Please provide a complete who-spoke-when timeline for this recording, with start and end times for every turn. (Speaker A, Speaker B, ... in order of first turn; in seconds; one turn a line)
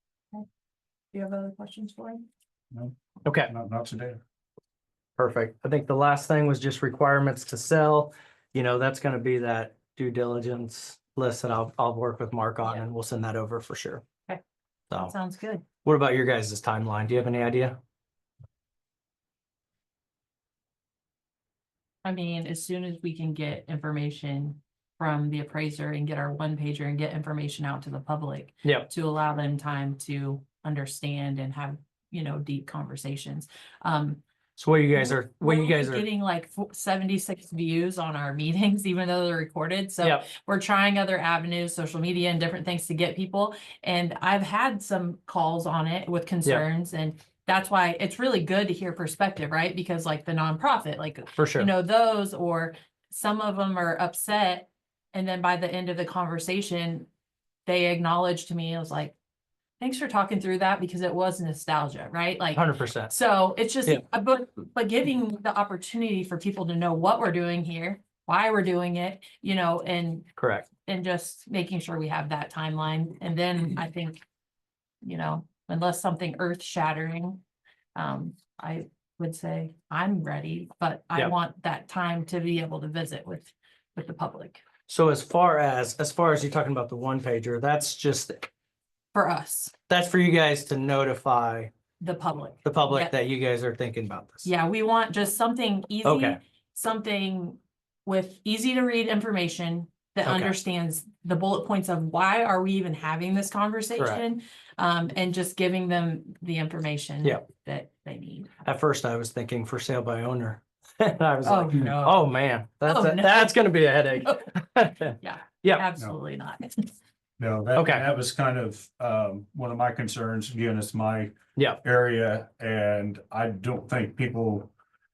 Speaker A: 1.1-2.3
Speaker B: 3.2-3.5
Speaker C: 3.5-4.2
Speaker B: 5.2-14.0
Speaker A: 15.0-15.7
Speaker B: 15.8-17.8
Speaker A: 22.0-34.2
Speaker B: 28.6-28.9
Speaker B: 34.6-36.0
Speaker A: 35.0-57.1
Speaker B: 40.0-40.3
Speaker B: 51.4-51.7
Speaker A: 57.7-59.1
Speaker A: 59.8-70.3
Speaker B: 62.5-63.1
Speaker B: 70.4-70.7
Speaker A: 70.9-74.2
Speaker A: 75.0-77.4
Speaker A: 78.0-84.6
Speaker B: 84.9-88.5
Speaker A: 89.1-89.7
Speaker B: 89.9-91.7
Speaker A: 92.0-93.1
Speaker B: 92.7-94.5
Speaker A: 94.5-108.5
Speaker B: 96.0-96.4
Speaker B: 100.2-100.5
Speaker B: 104.0-104.2
Speaker B: 108.6-115.9
Speaker A: 111.5-112.3
Speaker A: 112.9-113.6
Speaker A: 114.2-114.5
Speaker A: 115.2-116.9
Speaker C: 117.4-124.7
Speaker B: 117.8-118.1
Speaker B: 121.5-121.8